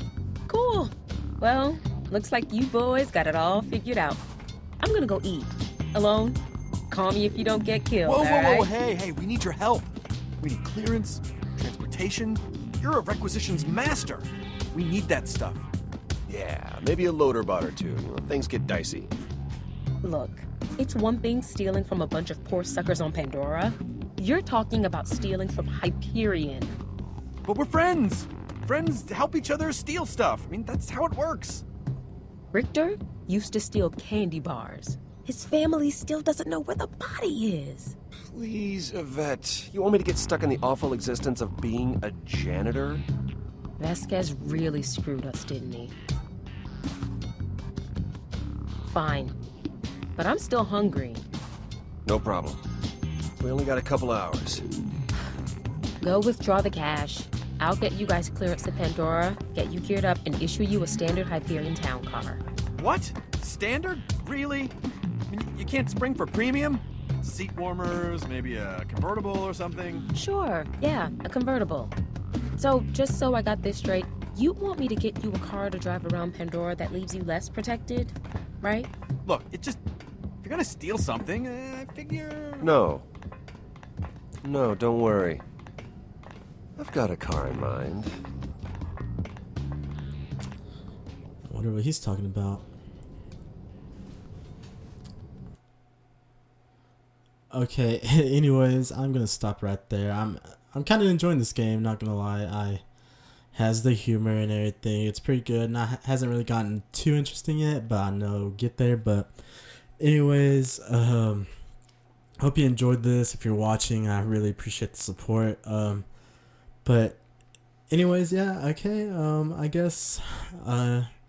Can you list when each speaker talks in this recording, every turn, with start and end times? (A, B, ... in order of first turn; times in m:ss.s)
0:00.5-0:04.2 A
0:04.8-0:06.4 A
0:06.9-0:08.7 A
0:08.0-0:09.9 B
0:10.4-0:15.6 B
0:16.3-0:19.1 C
0:20.0-0:26.8 A
0:27.4-0:31.6 B
0:32.5-0:38.0 A
0:38.3-0:43.0 C
0:43.8-0:45.9 A
0:48.8-0:49.3 A
0:50.2-0:51.3 A
0:52.0-0:52.6 C
0:53.4-0:54.6 C
0:56.0-1:02.4 A
1:02.8-1:04.7 B
1:05.3-1:10.1 B
1:10.1-1:11.9 A
1:12.6-1:18.9 A
1:19.2-1:19.8 B
1:20.4-1:22.7 B
1:22.6-1:23.0 C
1:24.4-1:25.4 C
1:26.8-1:28.1 C
1:31.4-1:32.6 D
1:37.5-1:42.8 D
1:43.5-1:49.4 D
1:50.0-1:51.5 D
1:52.4-1:56.0 D
1:56.8-1:57.2 D
1:57.9-2:01.1 D